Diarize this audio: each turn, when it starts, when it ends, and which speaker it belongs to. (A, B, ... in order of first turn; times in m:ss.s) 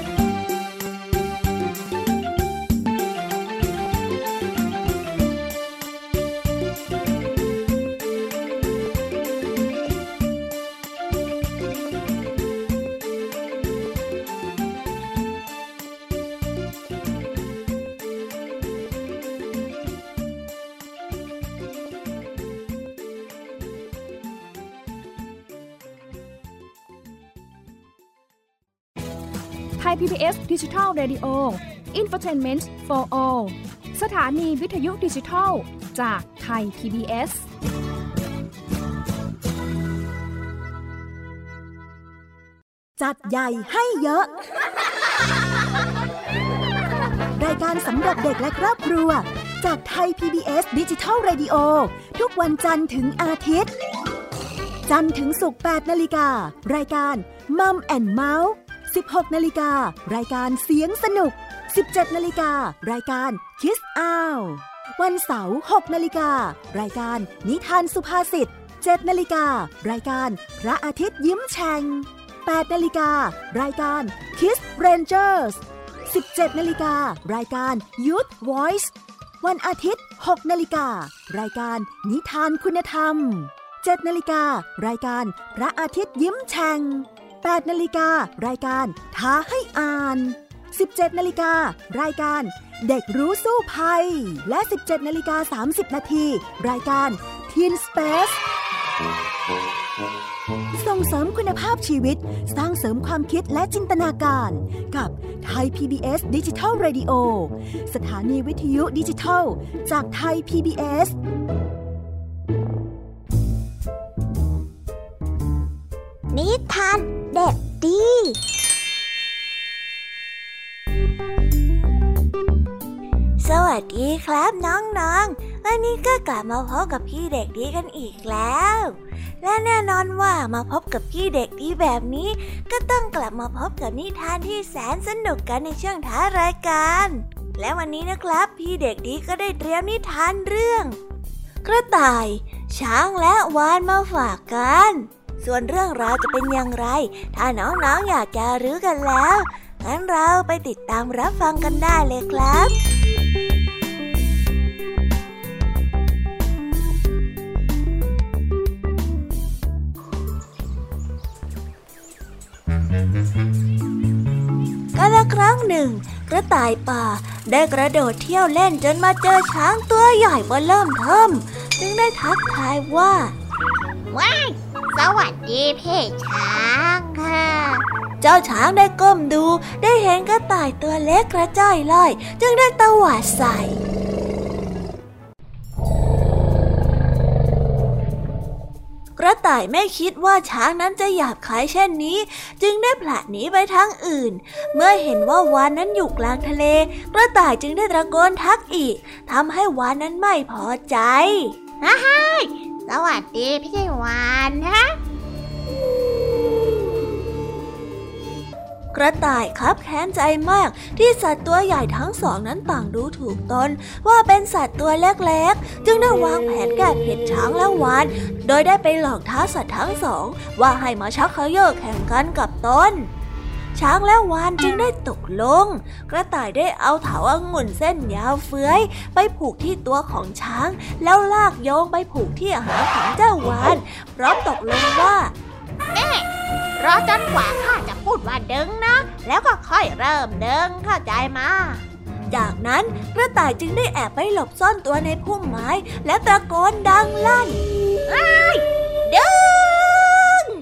0:29.8-0:37.4 A
0:43.0-0:44.3 B
0:47.3-0:53.7 B
0:54.9-1:38.4 B
1:40.7-1:51.2 B
1:56.3-1:58.4 C
2:03.4-2:21.0 D
2:21.6-2:32.7 D
2:44.9-2:53.3 D
2:54.1-2:57.8 C
2:58.2-3:03.8 D
3:09.2-3:21.6 D
3:21.8-3:24.9 C
3:28.9-3:43.1 D
3:43.7-3:55.3 D
3:55.9-3:56.3 C
3:56.8-4:01.8 C
4:02.3-4:07.6 D
4:08.1-4:08.6 C
4:09.1-4:10.4 D